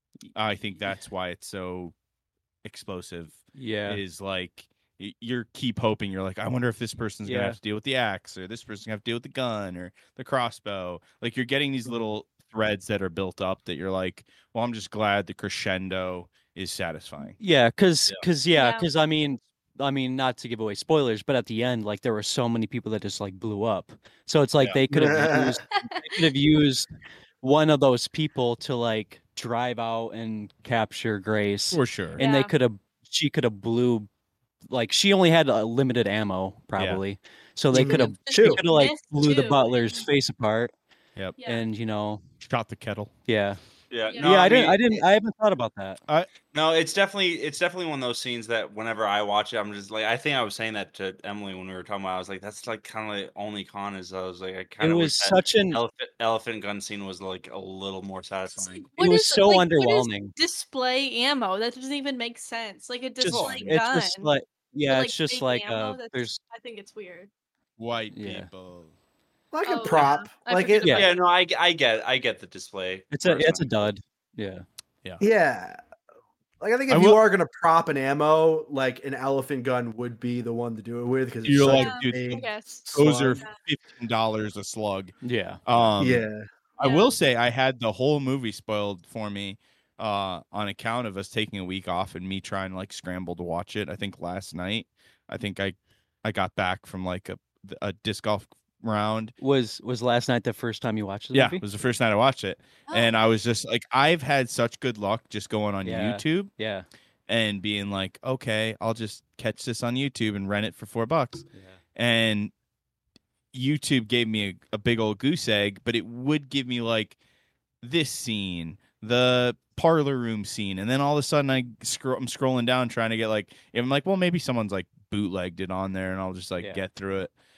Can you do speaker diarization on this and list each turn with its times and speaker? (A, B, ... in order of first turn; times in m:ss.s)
0:00.3-0:02.0 A
0:02.6-0:17.4 A
0:03.6-0:04.0 B
0:07.2-0:07.6 B
0:17.4-0:26.9 B
0:18.5-0:18.9 C
0:24.9-0:25.6 D
0:25.8-0:26.1 C
0:27.4-0:34.1 B
0:31.7-0:32.2 A
0:32.2-0:32.5 C
0:34.7-0:40.7 B
0:36.8-0:37.0 A
0:37.7-0:38.6 D
0:37.7-0:40.1 C
0:41.4-0:41.6 C
0:41.4-0:42.2 B
0:42.4-0:43.1 A
0:43.3-0:43.6 B
0:43.9-0:44.8 E
0:44.1-0:44.5 C
0:44.2-0:46.0 B
0:46.5-0:58.9 E
0:54.8-0:55.8 B
0:58.7-1:04.3 C
0:59.0-1:00.3 B
1:03.2-1:06.4 B
1:03.3-1:03.7 E
1:04.9-1:07.3 C
1:07.8-1:08.9 A
1:08.1-1:08.5 B
1:09.5-1:11.0 D
1:09.6-1:11.1 C
1:10.8-1:11.1 B
1:10.9-1:13.9 E
1:13.1-1:14.6 B
1:15.2-1:15.8 D
1:16.6-1:23.4 D
1:16.9-1:17.2 A
1:21.4-1:26.3 A
1:21.6-1:23.6 C
1:25.2-1:25.6 B
1:26.0-1:26.5 D
1:26.8-1:39.4 A
1:26.8-1:27.2 C
1:39.4-1:41.6 B
1:41.3-1:46.5 A
1:42.9-1:43.2 C
1:45.8-1:46.9 B
1:47.3-1:52.5 A
1:51.5-1:51.8 B
1:53.5-1:57.2 A
1:57.8-2:07.3 A